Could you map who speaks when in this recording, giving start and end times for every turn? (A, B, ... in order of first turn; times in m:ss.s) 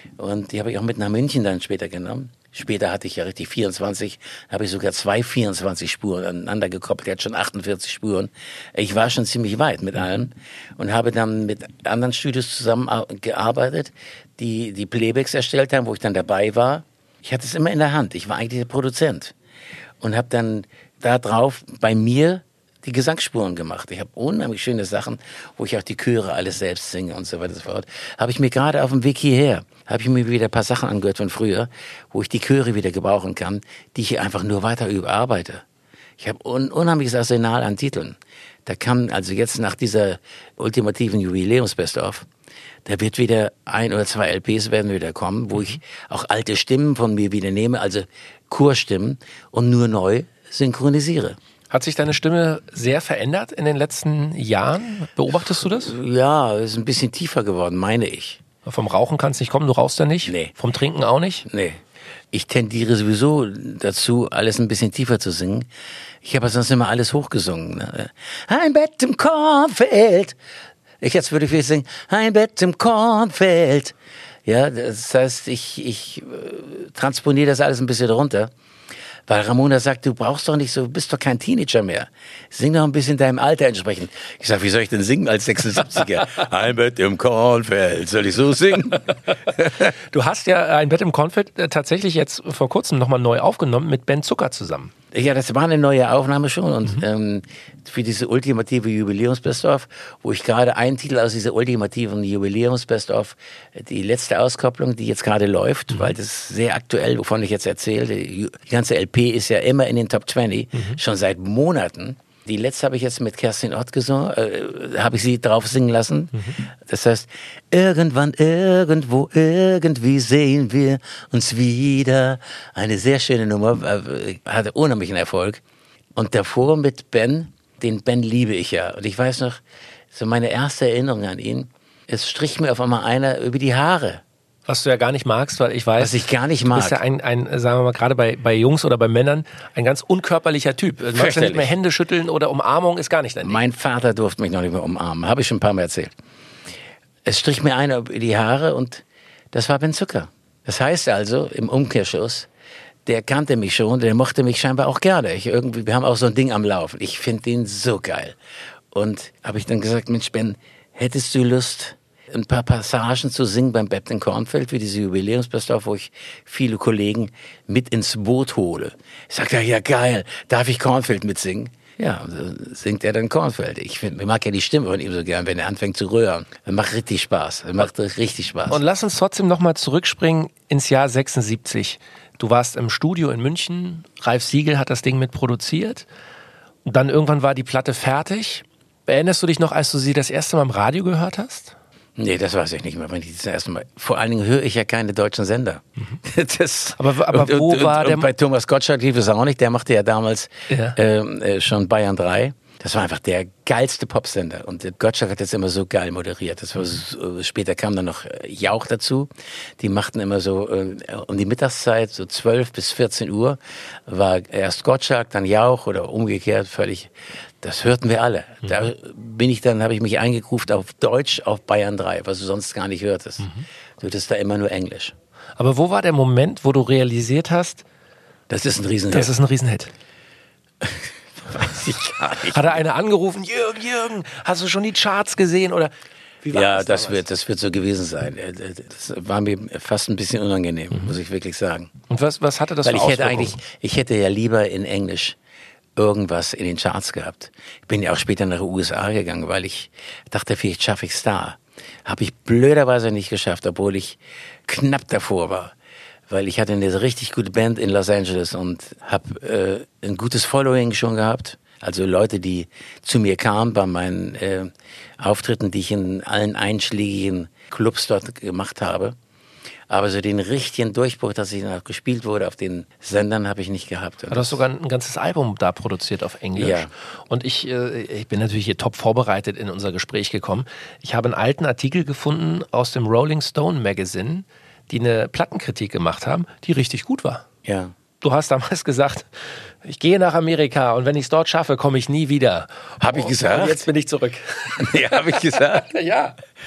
0:00.2-0:19.3 A
0:20.0-0:35.6 A
0:36.2-0:42.2 A
0:42.8-0:51.4 A
0:51.7-0:55.9 B
0:55.4-0:58.4 A
0:58.6-1:01.4 B
1:00.2-1:00.5 A
1:01.5-1:01.8 A
1:02.3-1:05.7 A
1:06.2-1:10.4 A
1:11.0-1:18.5 A
1:19.3-1:29.7 A
1:29.8-1:34.9 B
1:35.1-2:05.6 A
2:06.2-2:09.6 A
2:10.1-2:14.2 A
2:14.7-2:23.6 B
2:16.0-2:17.0 A
2:21.1-2:21.7 A
2:23.4-2:26.1 A
2:27.2-2:32.5 A
2:33.0-2:38.4 A
2:38.9-2:58.8 A
2:58.7-3:06.0 B
3:06.8-3:11.7 B
3:12.2-3:45.1 A
3:17.0-3:18.3 B
3:20.7-3:21.0 B
3:45.6-3:47.8 B
3:48.5-3:49.3 A
3:49.1-3:49.9 B
3:50.8-3:52.8 A
3:52.4-3:57.2 B
3:56.5-4:01.9 A
4:02.1-4:03.6 B
4:02.8-4:05.4 A
4:06.0-4:15.7 A
4:16.3-4:29.1 A
4:29.9-4:34.6 A
4:34.3-4:47.4 B
4:36.5-4:36.9 A
4:47.6-4:47.9 A
4:48.2-4:49.3 B
4:49.8-4:56.4 B
4:53.0-4:53.9 A
4:54.8-4:55.9 A